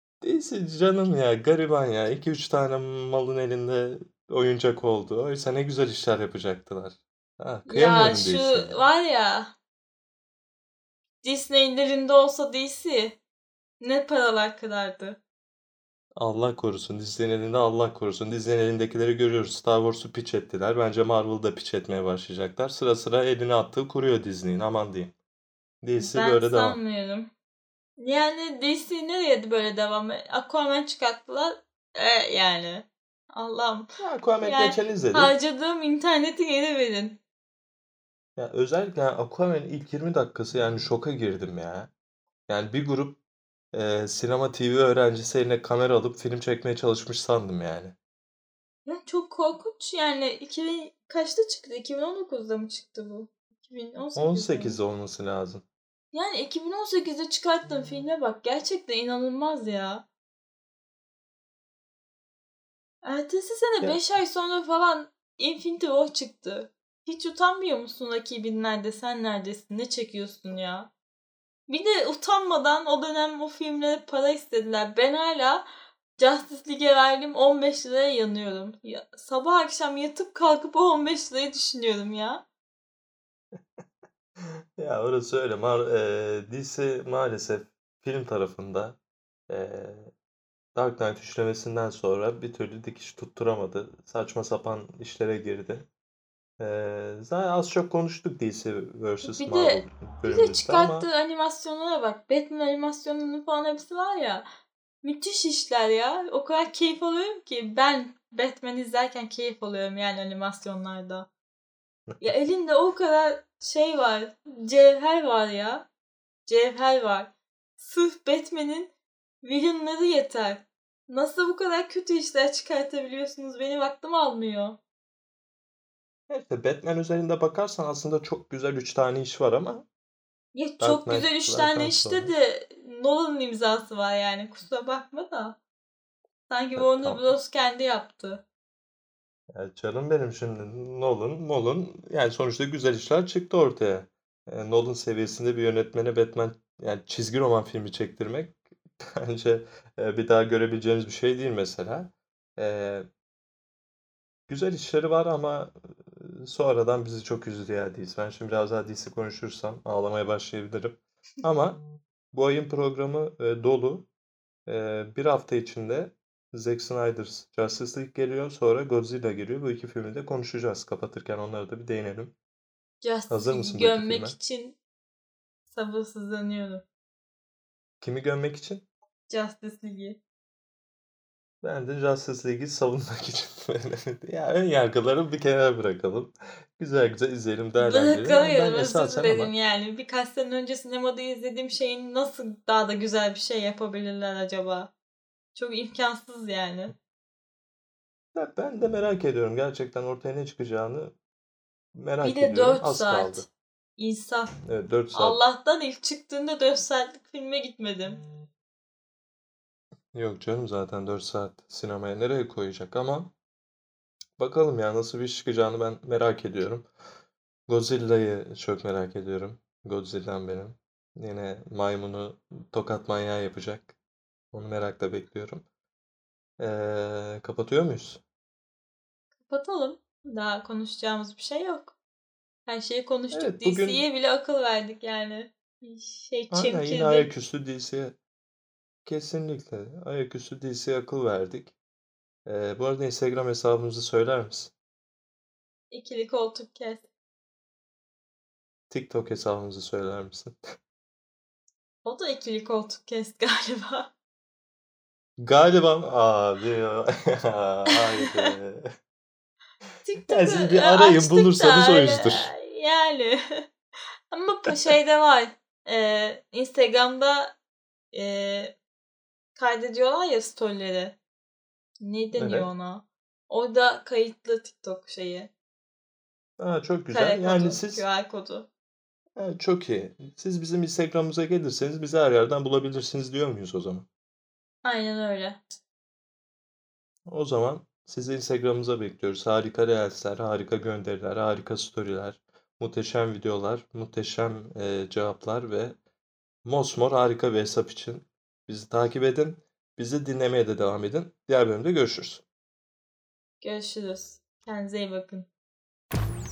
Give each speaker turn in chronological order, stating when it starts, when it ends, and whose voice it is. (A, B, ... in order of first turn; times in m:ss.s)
0:00.2-0:08.8 A
0:07.6-0:09.5 B
0:11.2-0:13.2 B
0:13.8-0:15.2 B
0:16.2-0:25.1 A
0:25.8-0:26.8 A
0:26.0-0:27.3 B
0:28.0-0:33.9 B
0:34.0-0:35.3 A
0:34.4-0:37.2 B
0:38.4-0:41.9 A
0:42.5-0:43.2 A
0:43.7-0:47.9 A
0:48.8-0:54.8 B
0:54.1-0:55.6 A
0:56.1-1:00.0 B
1:03.0-1:10.9 B
1:11.7-1:22.4 B
1:23.6-1:23.8 A
1:24.4-1:29.0 A
1:29.5-1:30.1 A
1:30.7-1:35.9 A
1:36.6-1:41.1 A
1:39.2-1:44.4 B
1:45.0-1:51.3 B
1:52.2-1:55.9 B
1:56.4-2:04.8 B
2:06.3-2:09.8 A
2:10.5-2:15.6 B
2:10.8-2:12.3 A
2:16.5-2:18.4 B
2:16.8-2:17.2 A
2:19.5-2:33.1 A
2:34.5-2:41.8 A
2:42.3-2:44.1 A
2:44.6-2:52.3 A
2:53.0-2:54.8 B
2:53.3-2:54.3 A
2:55.7-2:56.8 B
2:58.0-2:58.8 A
2:59.3-3:00.2 B
3:01.6-3:09.5 A
3:07.8-3:14.9 B
3:15.5-3:16.9 B
3:18.3-3:21.1 A
3:22.0-3:23.5 A
3:22.2-3:24.5 B
3:24.6-3:25.4 A
3:25.1-3:28.2 B
3:30.1-3:33.3 A
3:34.4-3:36.9 A
3:37.7-3:43.9 A
3:44.5-3:45.6 A
3:46.6-3:48.2 A
3:49.5-3:51.9 B
3:52.6-3:57.3 B
3:53.3-3:54.0 A
3:56.5-3:58.2 A
3:59.0-4:01.7 A
4:02.4-4:04.7 A
4:05.9-4:07.1 B
4:08.9-4:10.6 A
4:12.0-4:14.1 B
4:15.4-4:18.8 A
4:20.0-4:23.6 B
4:20.3-4:22.5 A
4:24.3-4:27.6 B
4:28.1-4:28.7 B
4:29.5-4:31.2 B
4:32.0-4:35.5 B
4:32.3-4:32.7 A
4:36.6-4:38.0 A
4:37.1-4:38.7 B
4:39.4-4:44.1 A
4:44.8-4:45.6 B
4:47.3-4:56.0 A
4:56.6-5:02.4 A
5:03.6-5:05.5 B